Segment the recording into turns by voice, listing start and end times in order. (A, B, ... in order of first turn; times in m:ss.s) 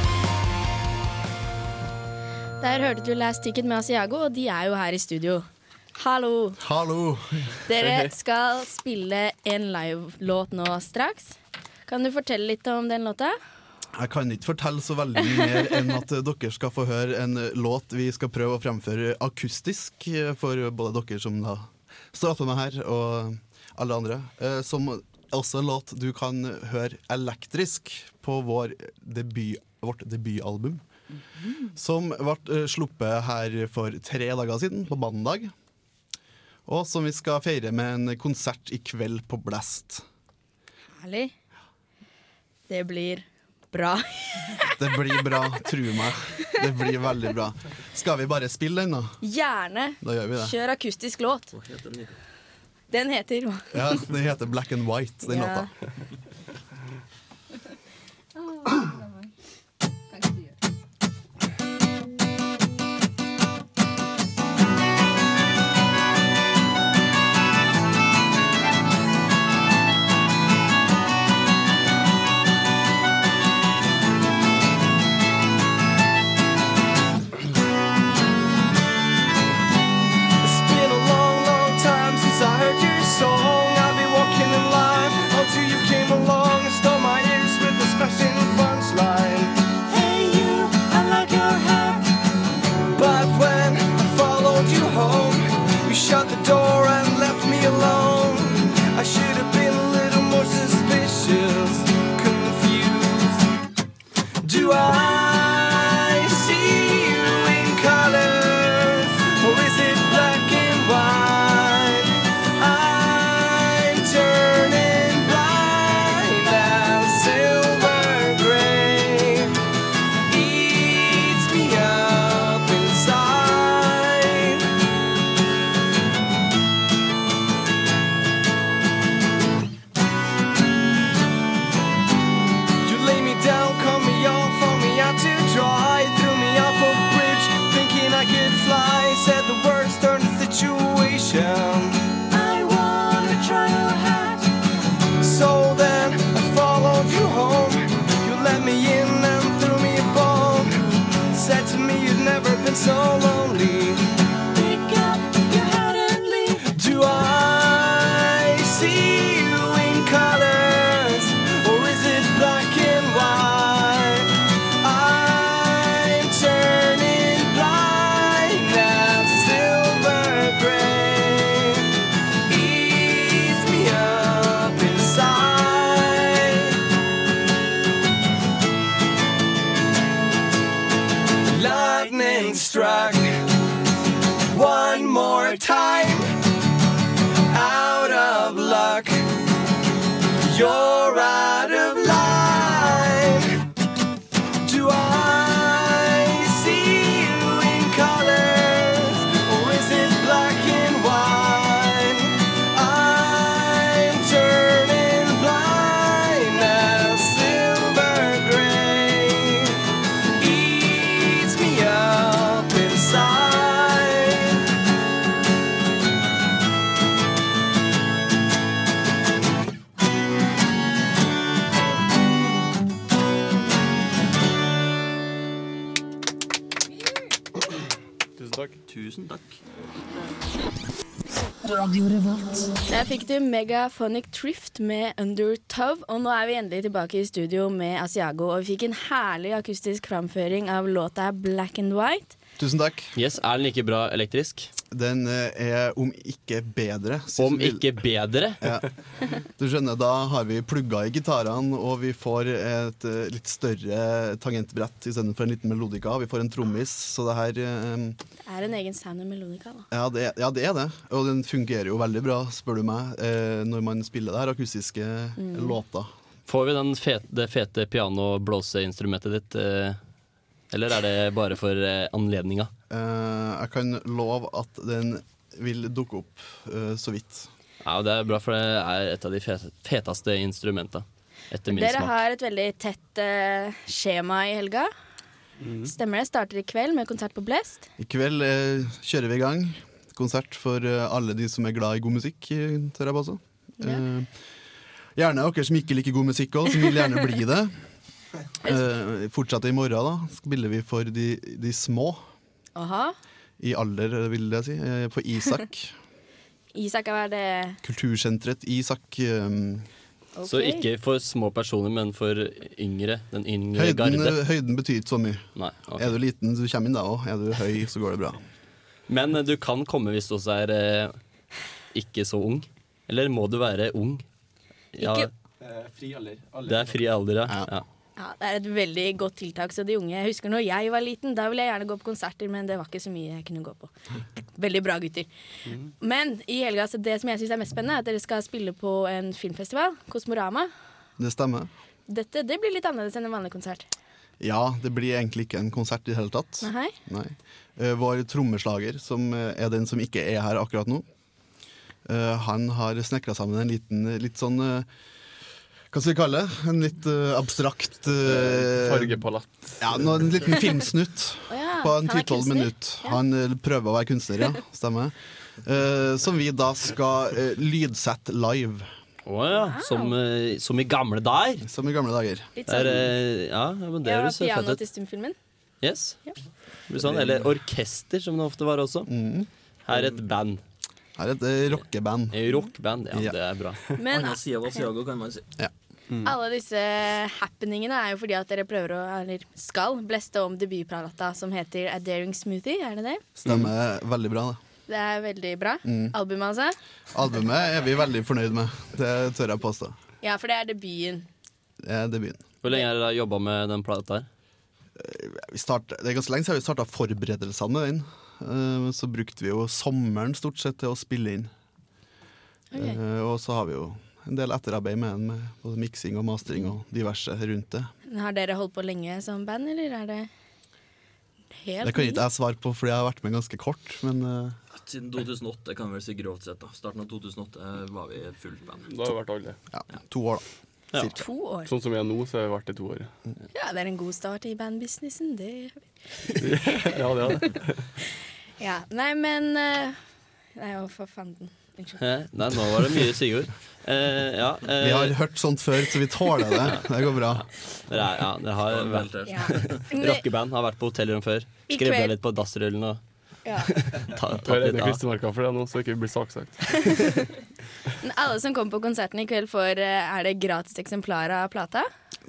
0:02.6-0:06.6 A
0:06.6-0:07.9 B
0:07.7-0:13.4 A
0:14.0-0:30.8 B
0:31.7-0:35.5 B
0:36.7-0:40.0 B
0:41.0-0:41.3 A
0:42.7-0:44.8 A
0:44.8-0:49.2 B
0:49.2-0:51.5 A
0:50.0-0:50.5 B
0:51.5-0:52.2 C
0:52.9-0:53.9 A
0:53.7-0:55.7 B
0:55.2-0:55.7 A
1:20.4-1:32.0 D
1:32.9-1:43.4 D
1:44.4-1:59.5 D
2:00.3-2:04.6 D
2:12.8-2:24.4 D
2:25.2-2:30.7 D
2:31.3-2:34.0 D
2:34.6-2:35.7 D
2:36.3-2:44.3 D
2:44.8-2:51.9 D
2:52.5-2:56.7 D
3:01.5-3:03.3 D
3:04.5-3:06.3 D
3:07.5-3:09.2 D
3:10.4-3:13.4 D
3:14.6-3:29.8 D
3:30.4-3:34.6 D
3:48.4-3:48.8 E
3:48.9-3:49.6 C
3:52.9-4:02.4 A
4:02.6-4:03.1 B
4:03.2-4:04.7 F
4:04.9-4:08.0 B
4:07.4-4:08.6 F
4:09.6-4:18.2 B
4:18.4-4:19.9 A
4:19.9-4:26.1 B
4:25.4-4:25.8 A
4:26.5-4:30.0 F
4:30.7-4:32.7 F
4:32.9-4:37.5 B
4:37.8-4:42.2 F
4:41.7-4:44.9 A
4:45.6-4:45.9 E
4:45.8-4:47.9 A
4:48.0-4:54.3 B
4:55.2-4:57.7 B
4:58.6-5:02.2 B
5:02.8-5:03.2 A
5:03.6-5:05.9 B
5:06.8-5:07.8 A
5:07.8-5:09.9 B
5:10.4-5:10.9 A
5:10.4-5:14.4 F
5:13.8-5:15.4 B
5:15.6-5:16.2 F
5:16.0-5:18.4 B
5:19.1-5:21.2 F
5:21.9-5:24.2 F
5:25.0-5:25.3 F
5:25.0-5:25.3 A
5:25.7-5:26.6 E
5:26.7-5:27.8 F
5:28.2-5:35.3 A
5:36.0-5:40.7 A
5:41.2-5:41.7 B
5:42.1-5:43.9 A
5:44.4-5:51.0 B
5:46.6-5:47.0 A
5:52.1-5:54.9 B
5:55.9-5:59.2 B
5:58.2-6:00.4 E
5:59.8-6:08.9 B
6:01.5-6:03.2 A
6:09.2-6:11.7 F
6:09.5-6:10.2 A
6:11.6-6:12.6 B
6:12.6-6:13.1 A
6:12.7-6:14.8 F
6:14.0-6:15.4 A
6:15.8-6:16.2 F
6:16.9-6:19.1 F
6:19.1-6:19.5 B
6:19.9-6:20.6 F
6:19.9-6:20.2 C
6:21.2-6:22.4 B
6:22.3-6:23.8 F
6:24.0-6:24.8 A
6:24.0-6:25.5 C
6:26.2-6:33.2 A
6:33.4-6:34.6 B
6:34.9-6:36.8 A
6:35.8-6:36.1 B
6:37.1-6:40.0 B
6:40.2-6:41.3 A
6:41.8-6:42.4 B
6:42.6-6:44.3 F
6:45.0-6:51.5 B
6:52.7-6:53.0 A
6:52.8-6:57.9 B
6:58.1-7:00.3 A
7:01.6-7:02.2 A
7:01.8-7:04.6 B
7:04.7-7:08.9 C
7:08.9-7:09.6 E
7:09.7-7:10.4 B
7:11.2-7:11.7 A
7:11.6-7:13.1 E
7:13.5-7:15.8 A
7:16.4-7:17.9 E
7:18.6-7:20.0 A
7:20.6-7:22.0 A
7:22.0-7:25.2 F
7:24.8-7:27.5 B
7:27.9-7:33.0 F
7:28.6-7:29.8 C
7:29.3-7:30.2 A
7:31.7-7:32.1 A
7:33.4-7:33.7 A
7:33.7-7:35.0 F
7:34.4-7:36.8 E
7:36.8-7:37.2 A
7:38.0-7:41.9 A